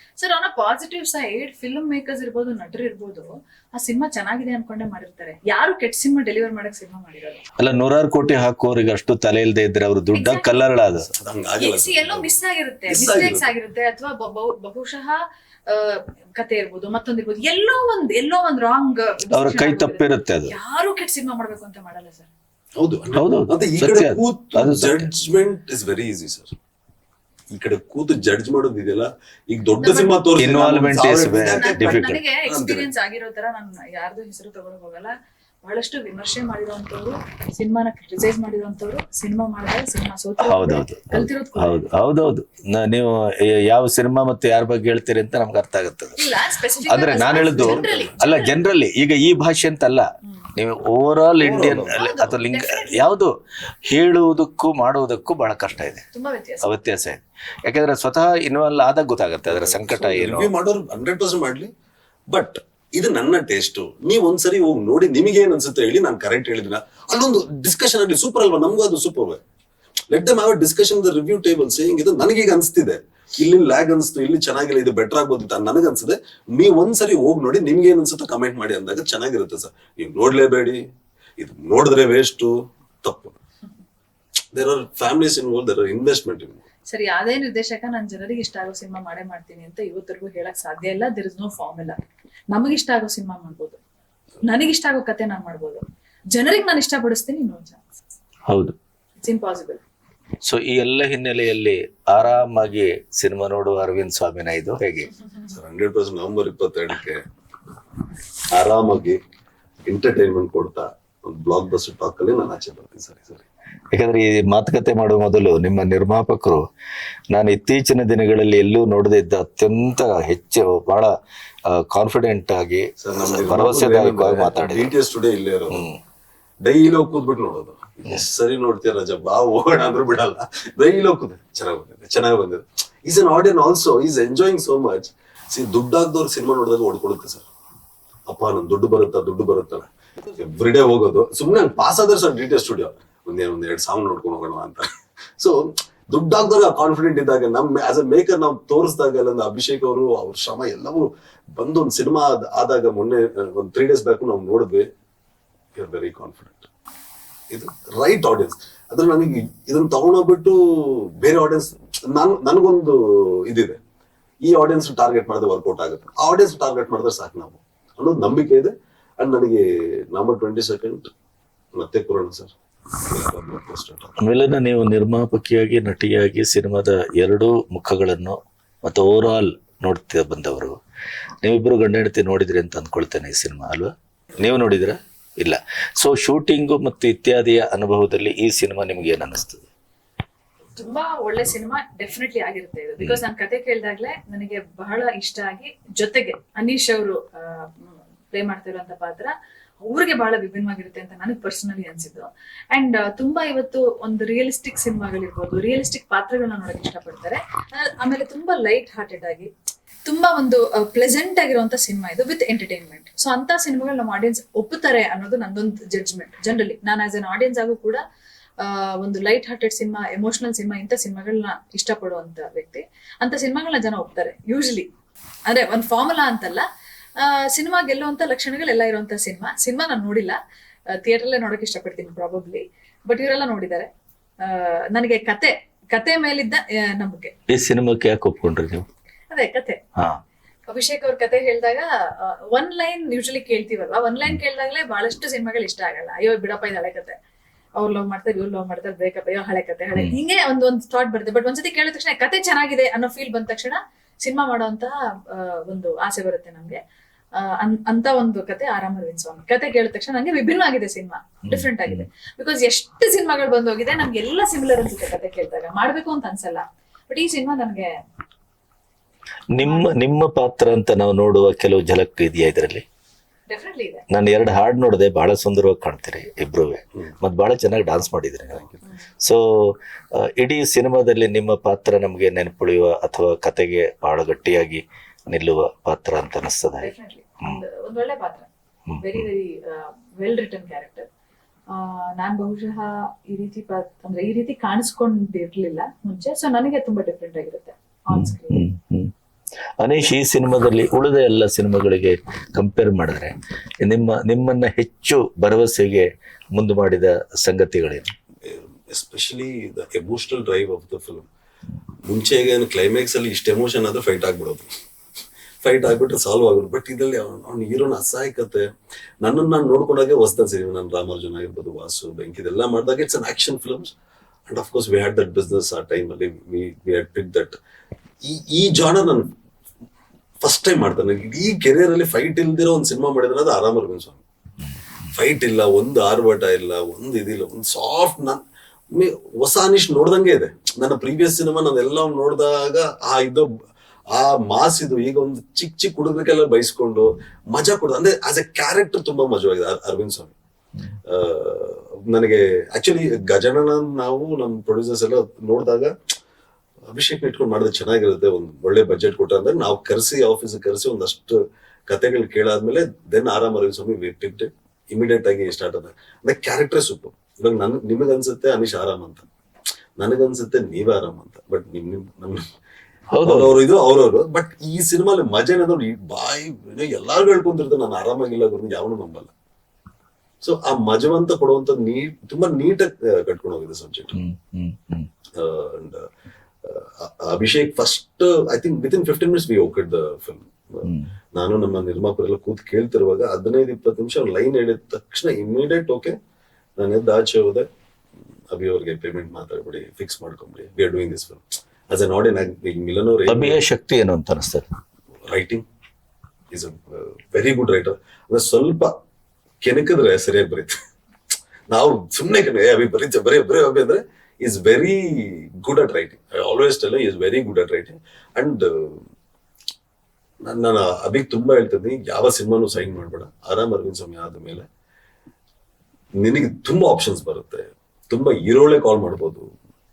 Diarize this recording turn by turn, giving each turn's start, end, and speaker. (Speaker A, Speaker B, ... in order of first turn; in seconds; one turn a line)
Speaker A: 0.2-7.4
Speaker B: 7.6-11.1
Speaker A: 10.1-10.5
Speaker C: 11.1-12.4
Speaker A: 11.6-22.3
Speaker C: 12.9-13.5
Speaker B: 19.3-20.5
Speaker C: 22.8-26.6
Speaker B: 23.1-25.1
Speaker C: 27.5-32.9
Speaker A: 29.8-30.2
Speaker B: 30.4-32.2
Speaker A: 31.5-35.1
Speaker A: 35.6-41.9
Speaker B: 40.4-46.2
Speaker A: 46.2-48.6
Speaker B: 46.9-53.3
Speaker C: 47.4-48.2
Speaker C: 51.4-52.0
Speaker A: 51.9-53.1
Speaker B: 53.9-56.0
Speaker A: 56.1-56.7
Speaker B: 56.6-60.5
Speaker C: 59.5-61.7
Speaker C: 62.3-69.4
Speaker C: 70.1-80.8
Speaker C: 81.4-83.4
Speaker C: 84.5-86.6
Speaker A: 86.9-92.0
Speaker A: 92.5-93.8
Speaker A: 94.4-97.8
Speaker B: 98.5-98.8
Speaker A: 99.2-99.8
Speaker B: 100.4-105.1
Speaker C: 105.5-107.2
Speaker C: 108.5-109.2
Speaker C: 109.9-113.5
Speaker B: 113.9-116.6
Speaker B: 117.3-121.1
Speaker B: 121.7-124.9
Speaker C: 123.0-125.8
Speaker B: 125.7-126.0
Speaker C: 126.6-137.5
Speaker C: 138.3-154.9
Speaker C: 155.8-156.7
Speaker C: 157.5-163.8
Speaker C: 164.4-171.1
Speaker C: 171.8-174.2
Speaker B: 174.2-180.8
Speaker B: 181.4-189.7
Speaker A: 190.8-209.5
Speaker A: 210.1-218.0
Speaker A: 218.6-224.9
Speaker A: 225.5-226.7
Speaker A: 227.2-230.4
Speaker A: 230.9-233.9
Speaker A: 234.4-237.3
Speaker B: 237.5-238.9
Speaker A: 239.3-239.8
Speaker A: 240.7-247.2
Speaker A: 247.8-256.8
Speaker A: 257.4-267.9
Speaker B: 261.5-262.1
Speaker B: 269.5-272.8
Speaker A: 269.6-269.9
Speaker A: 273.5-274.1
Speaker B: 274.1-278.6
Speaker C: 278.5-278.8
Speaker B: 279.2-286.9
Speaker A: 286.8-291.1
Speaker B: 288.9-289.3
Speaker A: 291.7-298.6
Speaker B: 298.1-299.1
Speaker B: 299.8-308.1
Speaker C: 308.4-311.3
Speaker C: 312.1-314.7
Speaker C: 315.6-318.7
Speaker C: 319.2-323.9
Speaker C: 324.5-327.6
Speaker C: 328.2-329.3
Speaker C: 330.4-334.2
Speaker C: 335.1-343.5
Speaker C: 344.1-350.3
Speaker C: 351.1-355.9
Speaker C: 356.9-369.3
Speaker C: 370.0-372.5
Speaker B: 373.1-373.6
Speaker C: 373.2-379.3
Speaker C: 380.4-384.2
Speaker B: 384.1-385.1
Speaker C: 385.4-386.1
Speaker C: 386.6-396.1
Speaker B: 390.8-391.1
Speaker C: 396.8-397.7
Speaker C: 398.5-403.6
Speaker B: 403.3-404.7
Speaker C: 405.3-405.6
Speaker C: 406.5-408.9
Speaker C: 409.6-410.8
Speaker C: 411.7-419.0
Speaker C: 420.4-424.7
Speaker C: 426.2-429.5